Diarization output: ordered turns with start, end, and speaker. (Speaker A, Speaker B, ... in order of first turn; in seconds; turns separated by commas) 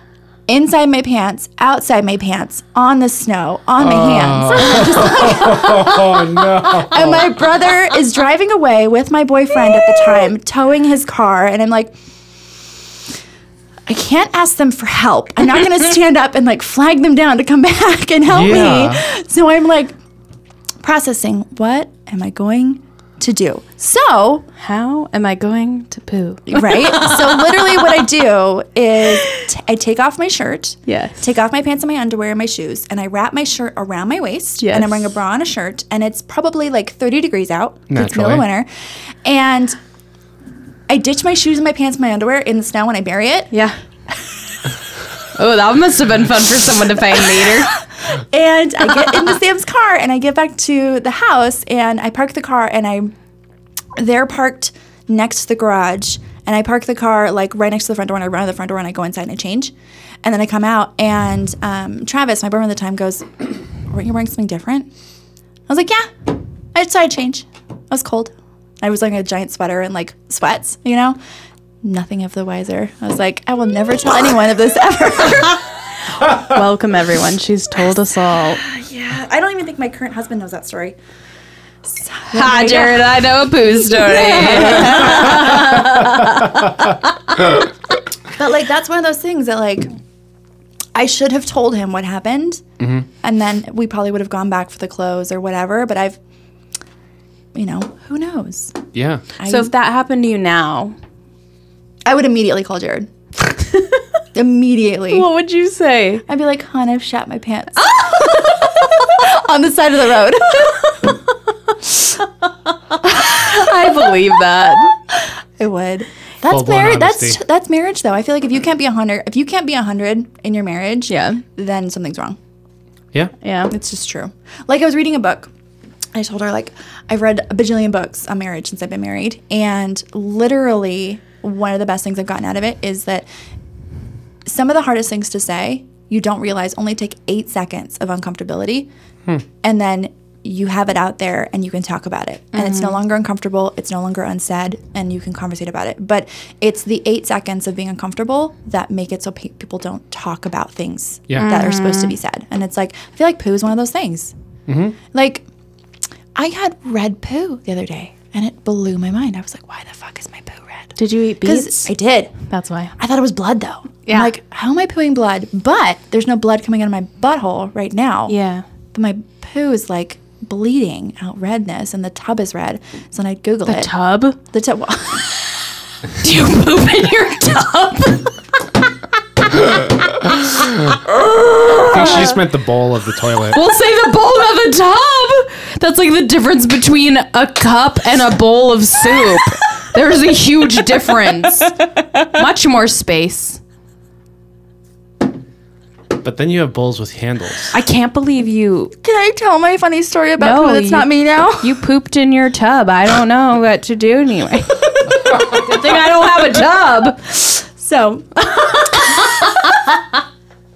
Speaker A: 0.5-11.9, Speaker B: 3.8-7.3, Speaker A: 13.8-19.9, Speaker B: 18.3-19.0, Speaker A: 20.8-24.4, Speaker C: 24.6-27.9, Speaker A: 26.5-38.7, Speaker C: 30.9-31.2, Speaker C: 34.6-35.0, Speaker B: 37.9-38.5, Speaker A: 39.2-39.8, Speaker A: 40.9-43.5, Speaker C: 43.5-43.8, Speaker C: 45.3-47.8, Speaker A: 48.0-53.1, Speaker A: 54.0-63.3, Speaker A: 63.9-64.9, Speaker A: 65.7-71.2, Speaker A: 71.8-75.7, Speaker C: 76.2-78.6, Speaker A: 78.5-81.0, Speaker A: 81.8-85.9, Speaker C: 82.3-87.5, Speaker A: 88.3-89.9, Speaker A: 90.9-92.6, Speaker B: 92.8-93.0, Speaker A: 93.2-96.2, Speaker A: 97.5-98.8, Speaker B: 98.9-99.2, Speaker A: 99.4-99.7, Speaker C: 99.4-100.9, Speaker A: 102.0-103.1, Speaker C: 103.7-104.0, Speaker A: 104.3-105.2, Speaker C: 105.1-106.2, Speaker A: 106.3-110.8, Speaker C: 107.9-108.7, Speaker C: 113.0-115.0, Speaker A: 113.0-113.7, Speaker A: 115.1-122.4, Speaker B: 116.5-117.4, Speaker C: 121.1-121.4, Speaker C: 123.4-123.7, Speaker A: 123.7-125.5, Speaker A: 126.1-133.3, Speaker A: 134.4-138.9, Speaker A: 139.6-154.3, Speaker C: 142.5-142.9, Speaker C: 151.3-152.1, Speaker B: 154.7-155.0, Speaker A: 155.1-155.4, Speaker A: 156.3-162.3, Speaker C: 161.0-161.9, Speaker C: 162.5-162.9, Speaker A: 163.0-168.3, Speaker C: 164.1-164.3, Speaker C: 168.3-168.6, Speaker A: 168.9-175.3, Speaker C: 173.7-174.4, Speaker C: 176.2-178.4, Speaker C: 181.0-182.4, Speaker B: 181.7-183.6, Speaker C: 183.5-191.8, Speaker A: 191.5-192.2, Speaker C: 192.3-193.6, Speaker B: 196.2-197.7, Speaker C: 197.7-198.9, Speaker A: 199.0-201.8, Speaker C: 200.4-207.4, Speaker A: 207.4-209.8, Speaker C: 208.6-209.4